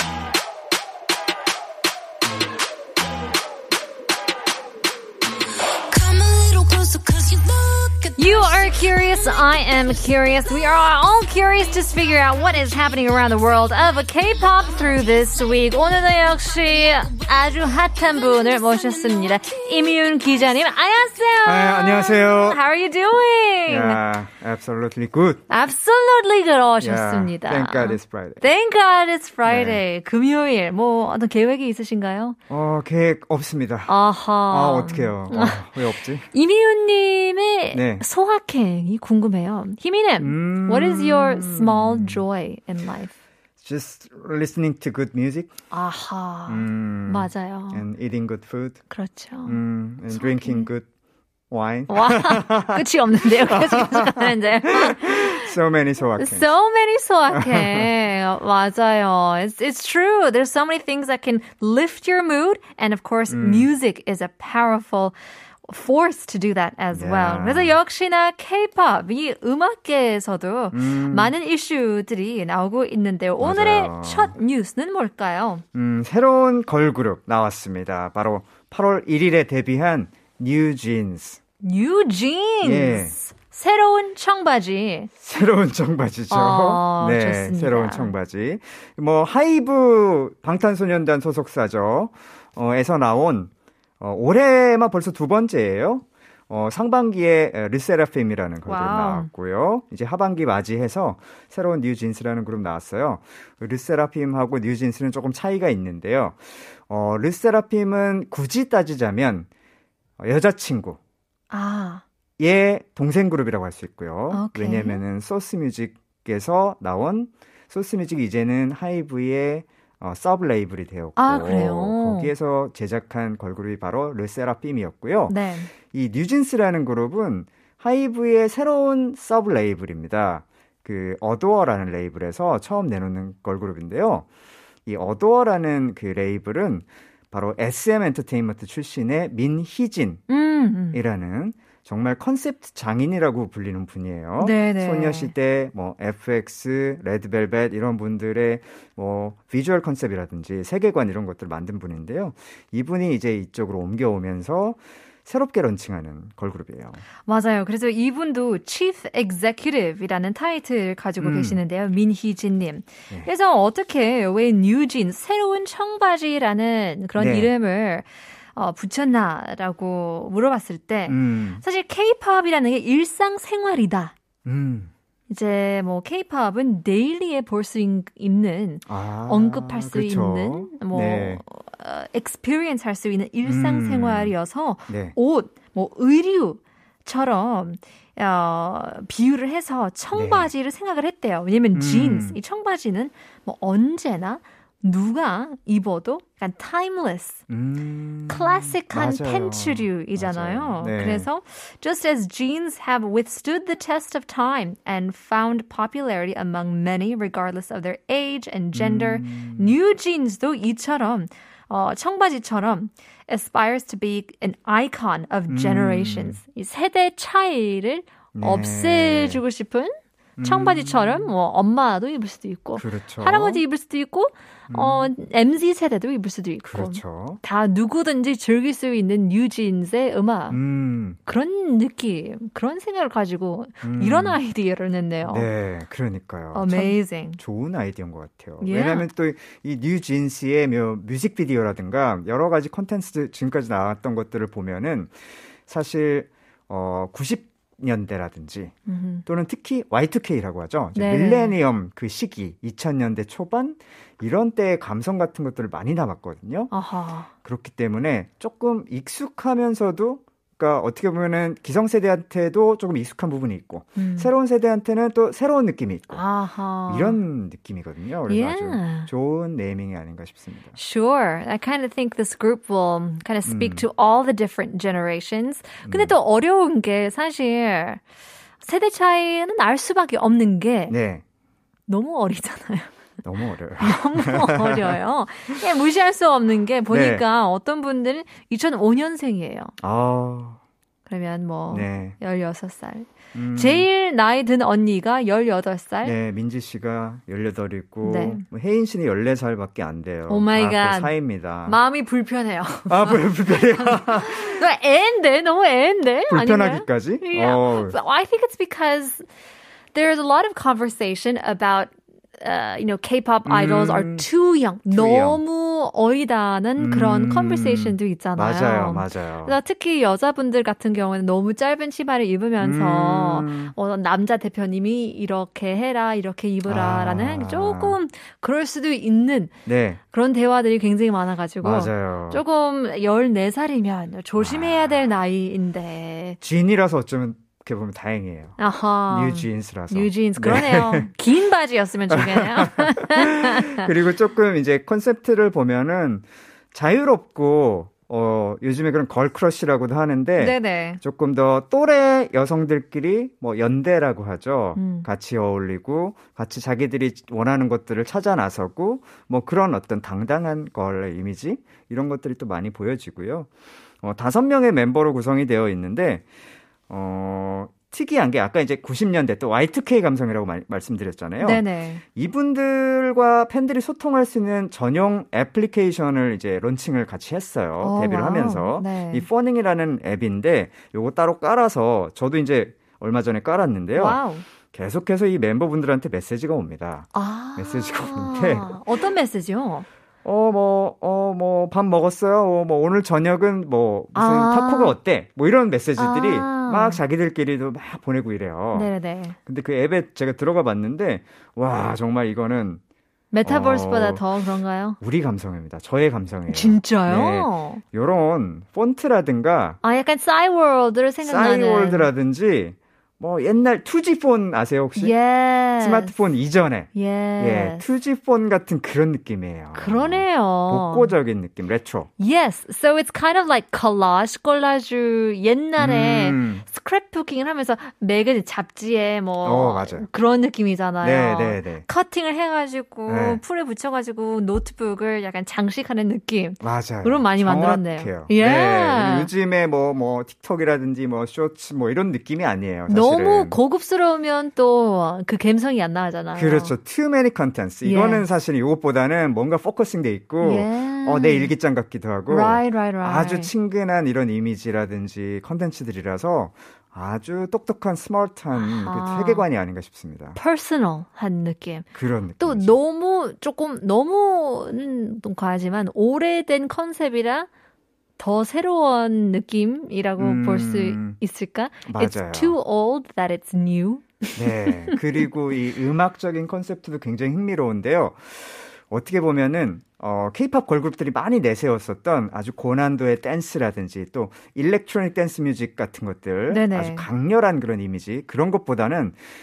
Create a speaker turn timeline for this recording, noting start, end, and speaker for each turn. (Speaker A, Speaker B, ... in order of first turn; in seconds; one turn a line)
Speaker A: 5.9-8.1
Speaker B: 8.2-24.0
Speaker C: 21.4-22.6
Speaker C: 23.7-25.4
Speaker B: 25.5-32.4
Speaker C: 26.8-28.5
Speaker C: 29.4-29.8
Speaker C: 32.5-36.3
Speaker B: 33.9-43.1
Speaker C: 37.7-38.0
Speaker C: 40.2-42.2
Speaker C: 43.6-45.5
Speaker B: 45.7-47.9
Speaker C: 46.5-48.8
Speaker B: 48.9-49.6
Speaker C: 49.4-50.9
Speaker B: 50.1-50.7
Speaker C: 51.5-56.5
Speaker B: 51.9-55.5
Speaker B: 56.2-75.6
Speaker C: 57.3-57.9
Speaker C: 63.3-63.7
Speaker C: 66.9-67.8
Speaker C: 70.7-71.3
Speaker C: 73.4-74.4
Speaker C: 75.7-81.4
Speaker B: 81.6-85.1
Speaker C: 82.6-83.2
Speaker C: 85.2-109.5
Speaker B: 86.3-88.1
Speaker B: 98.7-99.3
Speaker C: 110.2-111.0
Speaker B: 111.5-112.0
Speaker C: 112.4-125.4
Speaker B: 114.3-115.0
Speaker B: 121.2-122.3
Speaker B: 125.3-125.7
Speaker C: 125.9-134.3
Speaker C: 134.9-140.2
Speaker B: 140.3-141.0
Speaker C: 140.9-157.0
Speaker B: 144.4-145.3
Speaker B: 157.3-174.1
Speaker C: 161.2-161.6
Speaker C: 167.2-167.5
Speaker C: 171.1-171.6
Speaker C: 174.4-174.9
Speaker B: 175.3-197.4
Speaker C: 178.9-181.4
Speaker C: 183.4-184.3
Speaker C: 184.9-185.2
Speaker C: 190.1-190.5
Speaker C: 191.7-192.4
Speaker C: 197.5-201.3
Speaker B: 198.3-230.6
Speaker C: 208.7-209.8
Speaker C: 215.5-216.4
Speaker C: 218.3-219.4
Speaker C: 220.4-221.3
Speaker C: 222.8-223.6
Speaker C: 224.7-225.1
Speaker C: 226.7-227.4
Speaker C: 230.5-231.2
Speaker B: 231.2-235.5
Speaker C: 233.8-234.4
Speaker C: 235.2-245.1
Speaker B: 236.5-237.4
Speaker B: 238.6-239.1
Speaker C: 245.7-248.7
Speaker B: 248.9-249.2
Speaker C: 249.3-256.7
Speaker B: 250.9-251.6
Speaker B: 256.7-257.3
Speaker C: 257.4-266.2
Speaker B: 264.0-264.3
Speaker B: 266.1-267.2
Speaker C: 266.9-270.8
Speaker B: 268.3-269.1
Speaker B: 270.8-278.0
Speaker C: 273.5-273.9
Speaker C: 275.9-276.2
Speaker B: 278.6-281.0
Speaker C: 280.9-281.2
Speaker B: 281.9-282.9
Speaker C: 283.2-285.0
Speaker B: 283.8-289.7
Speaker C: 286.9-287.2
Speaker C: 289.8-290.6
Speaker B: 291.1-296.2
Speaker C: 291.7-292.2
Speaker C: 293.3-293.9
Speaker C: 296.0-301.8
Speaker B: 298.0-298.4
Speaker B: 300.3-301.1
Speaker B: 301.6-309.3
Speaker C: 302.9-304.6
Speaker C: 306.3-308.0
Speaker B: 309.9-329.6
Speaker C: 313.4-314.3
Speaker C: 314.9-315.4
Speaker C: 316.8-319.6
Speaker C: 322.6-323.8
Speaker C: 326.7-328.0
Speaker C: 329.7-330.0
Speaker B: 330.1-336.4
Speaker C: 331.6-332.4
Speaker C: 334.4-335.0
Speaker C: 336.4-341.1
Speaker B: 338.6-343.9
Speaker C: 342.1-363.5
Speaker B: 350.4-351.0
Speaker B: 354.8-355.1
Speaker C: 364.0-366.2
Speaker C: 366.9-388.8
Speaker B: 371.4-372.0
Speaker B: 377.8-379.3
Speaker B: 383.9-384.4
Speaker B: 387.1-389.9
Speaker C: 390.2-398.9
Speaker B: 394.1-395.0
Speaker B: 396.0-397.0
Speaker B: 398.7-399.4
Speaker C: 399.4-402.8
Speaker B: 403.3-405.0
Speaker C: 403.4-404.3
Speaker C: 405.0-409.8
Speaker B: 406.5-407.8
Speaker B: 409.8-412.1
Speaker C: 411.2-415.2
Speaker B: 415.0-416.2
Speaker C: 415.8-422.1
Speaker B: 416.9-417.8
Speaker B: 419.7-421.1
Speaker B: 422.2-439.3
Speaker C: 425.8-426.6
Speaker C: 429.4-430.1
Speaker C: 431.0-431.9
Speaker C: 433.1-433.4
Speaker C: 436.6-443.6
Speaker B: 442.9-446.8
Speaker C: 446.3-460.4
Speaker B: 447.8-448.3
Speaker B: 450.4-451.6
Speaker B: 452.3-453.5
Speaker B: 458.6-459.5
Speaker B: 460.4-461.9
Speaker C: 461.9-462.8
Speaker B: 462.4-467.5
Speaker B: 468.2-475.0
Speaker C: 470.2-471.2
Speaker C: 471.9-472.6
Speaker C: 474.4-489.2
Speaker B: 486.5-487.1